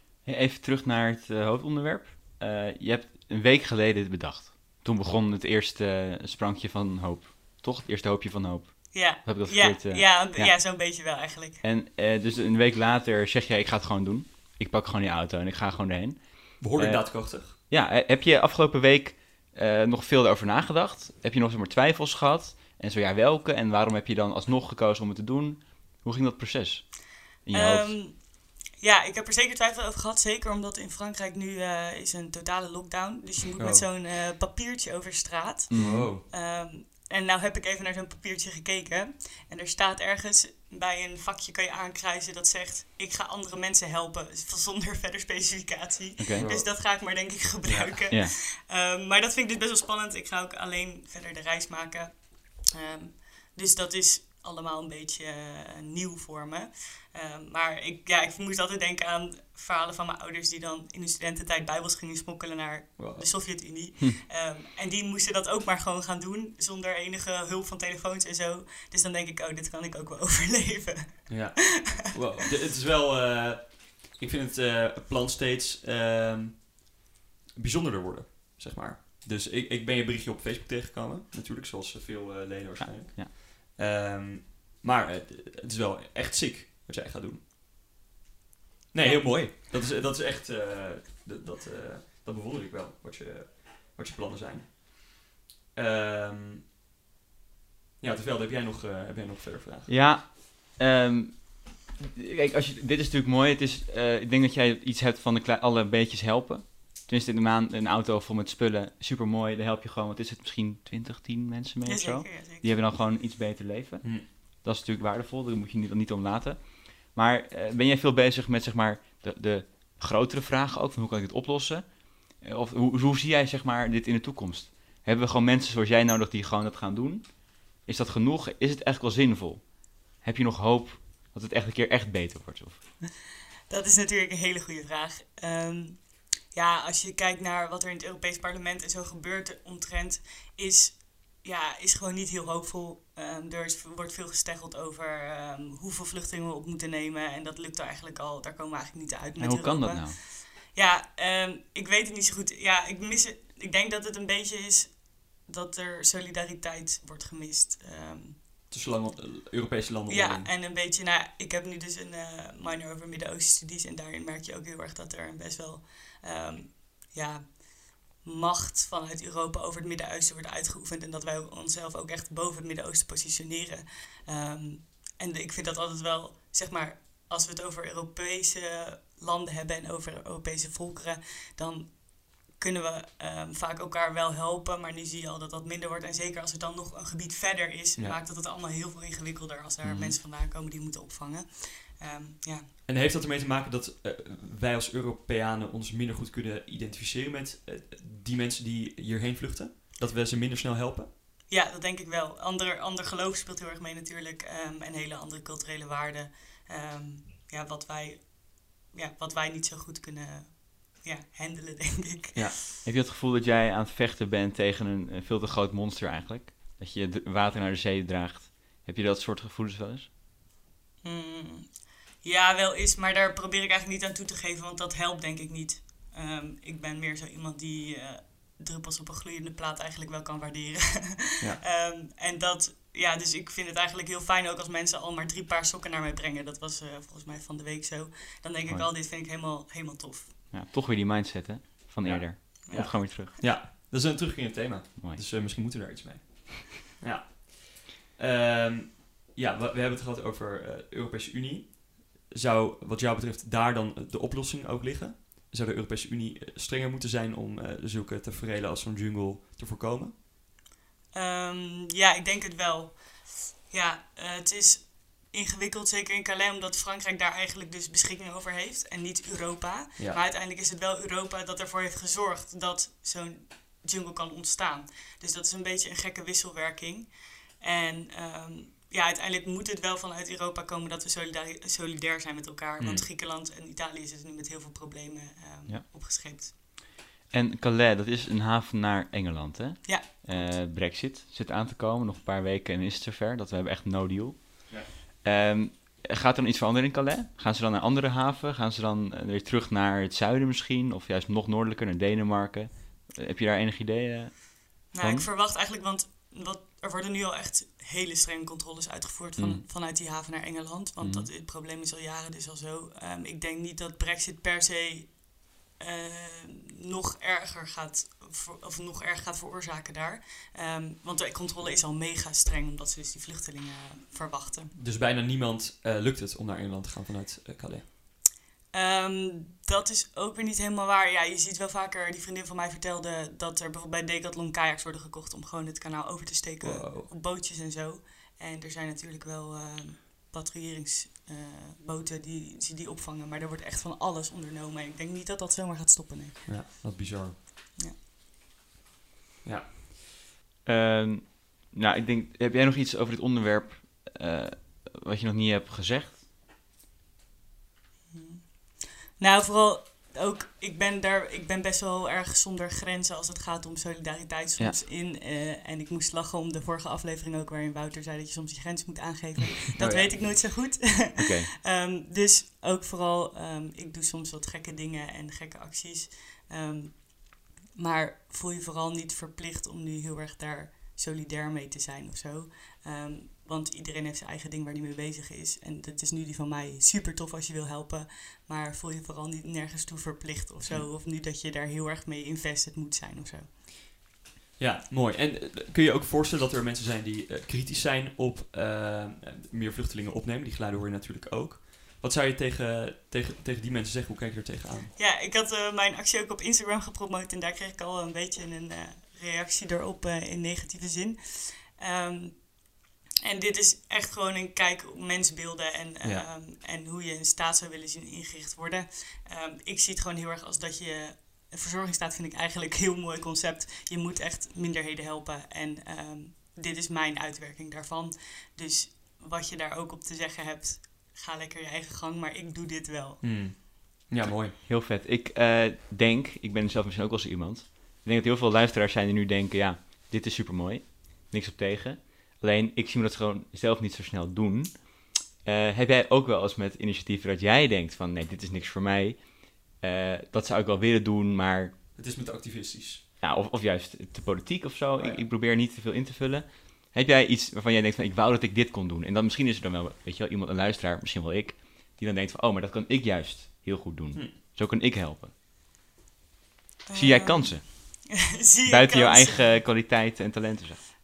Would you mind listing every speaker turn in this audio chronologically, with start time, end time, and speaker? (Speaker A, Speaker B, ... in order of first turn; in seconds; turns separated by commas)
Speaker A: 0.2-10.5, Speaker B: 8.9-11.6, Speaker A: 11.6-28.0, Speaker C: 16.6-17.5, Speaker B: 27.5-72.0, Speaker C: 33.6-33.9, Speaker A: 35.7-36.1, Speaker C: 35.7-36.2, Speaker A: 46.2-46.5, Speaker C: 46.4-46.9, Speaker C: 47.6-48.0, Speaker C: 63.0-63.2, Speaker C: 71.3-76.9, Speaker C: 77.5-87.4, Speaker A: 82.8-83.3, Speaker C: 88.9-95.2, Speaker B: 89.0-89.3, Speaker C: 95.7-96.6, Speaker C: 98.0-99.9, Speaker A: 99.9-132.9, Speaker B: 111.8-112.7, Speaker B: 133.7-158.4, Speaker A: 149.4-150.2, Speaker C: 158.7-160.5, Speaker B: 160.1-192.7, Speaker A: 189.8-190.2, Speaker C: 192.8-201.1, Speaker B: 201.5-212.5, Speaker A: 212.8-220.1, Speaker B: 221.0-240.3, Speaker A: 240.5-243.3, Speaker C: 242.0-260.1, Speaker B: 261.1-286.5, Speaker A: 287.3-305.3, Speaker B: 289.8-290.5, Speaker B: 304.9-324.7, Speaker A: 309.4-309.6, Speaker A: 311.0-311.3, Speaker C: 324.7-327.9, Speaker B: 328.7-346.6, Speaker C: 336.6-337.1, Speaker C: 346.4-347.4, Speaker C: 349.4-349.7, Speaker A: 350.6-356.2, Speaker B: 358.1-393.5, Speaker A: 369.8-371.5, Speaker C: 394.6-404.9, Speaker B: 405.0-412.6, Speaker B: 413.2-433.2, Speaker C: 416.0-416.3, Speaker C: 433.2-434.5, Speaker A: 434.6-451.7, Speaker C: 451.9-453.0, Speaker A: 453.2-465.3, Speaker C: 455.0-455.2, Speaker B: 466.9-469.6, Speaker A: 466.9-468.0, Speaker A: 468.6-470.8